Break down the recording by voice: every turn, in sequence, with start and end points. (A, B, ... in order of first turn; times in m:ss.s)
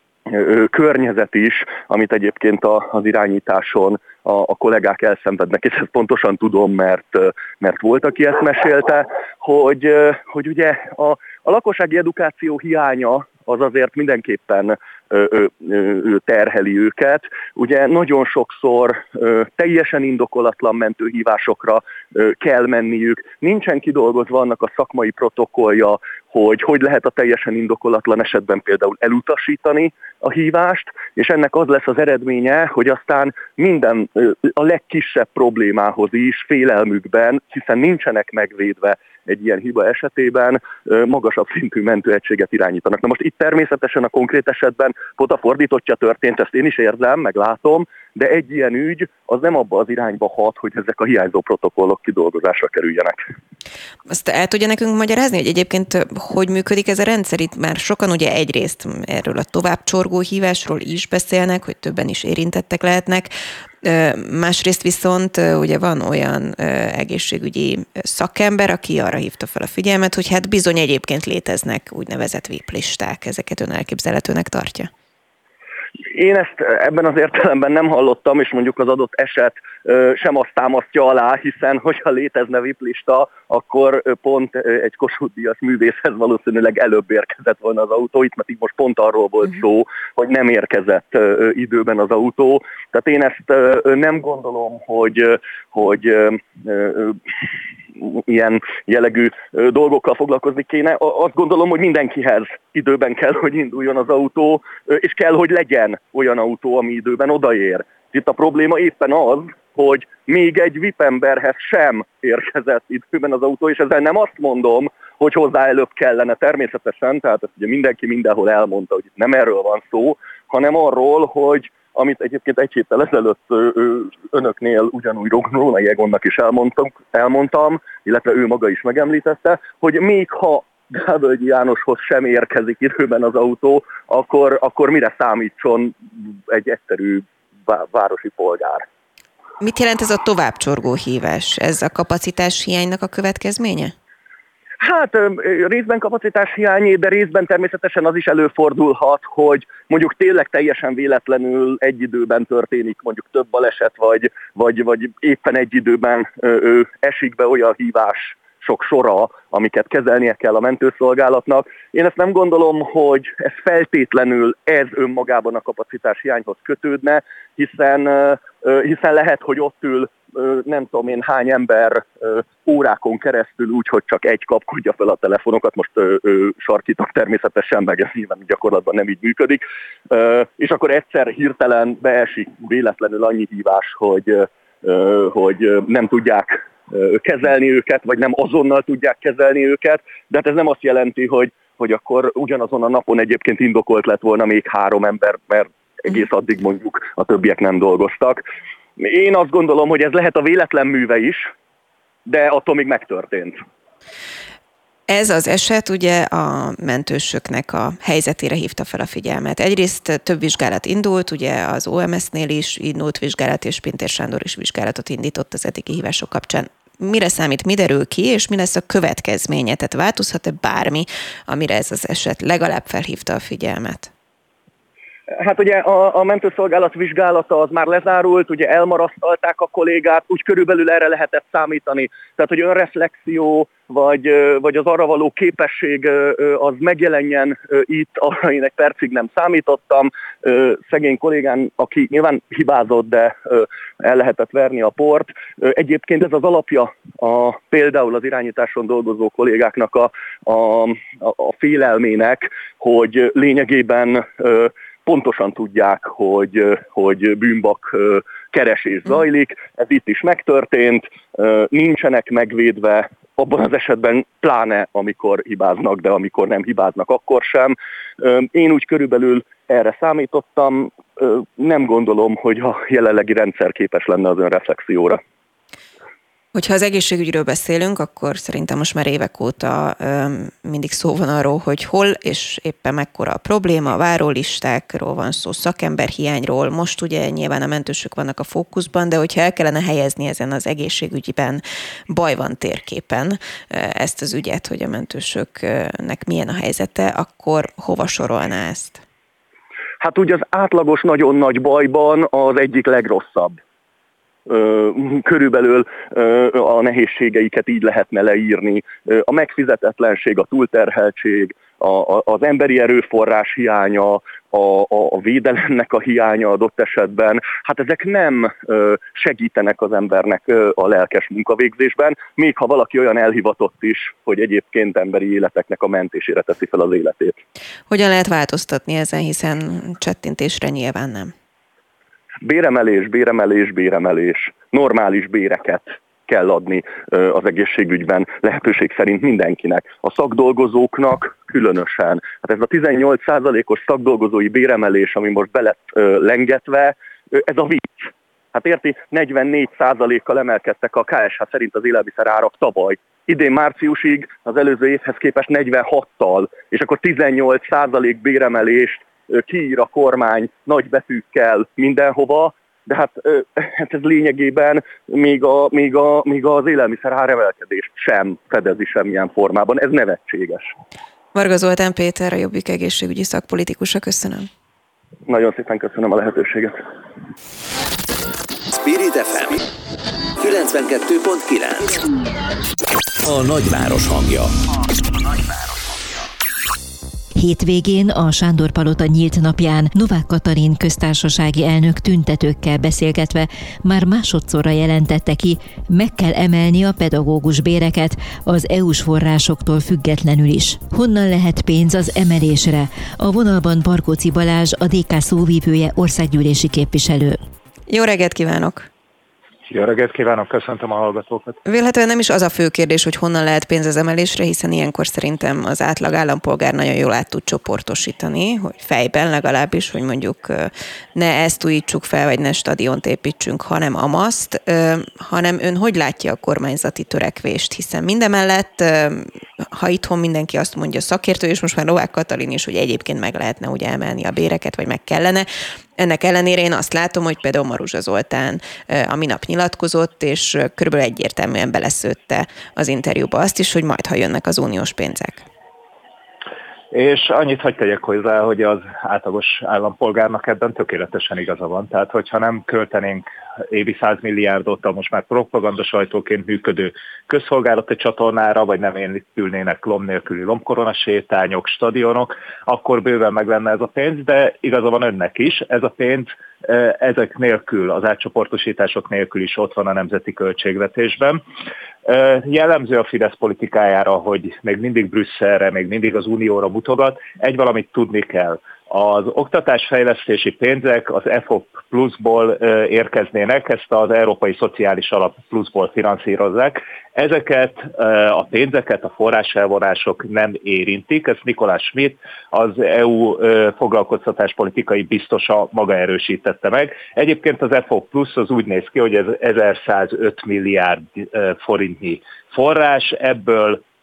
0:00.3-0:53.2 A
0:54.1-1:03.3 B
1:03.8-1:14.9 B
1:16.1-1:37.2 A
1:38.0-2:18.8 A
2:19.6-2:23.9 B
2:24.8-3:18.4 A
3:19.0-3:21.5 A
3:22.3-3:23.6 A
3:25.1-3:44.1 B
3:45.3-4:35.2 A
4:36.5-4:59.0 B
5:00.0-5:03.6 A
5:04.5-5:27.4 A
5:27.9-5:31.3 B
5:32.4-6:10.7 A
6:11.3-6:14.5 B
6:15.3-6:16.9 A
6:18.7-6:19.6 C
6:20.4-6:22.0 C
6:23.2-6:24.5 C
6:27.4-6:47.4 D
6:47.9-6:48.9 B
6:49.7-6:51.6 E
6:51.7-7:25.5 B
7:26.9-7:51.4 E
7:52.0-8:23.8 E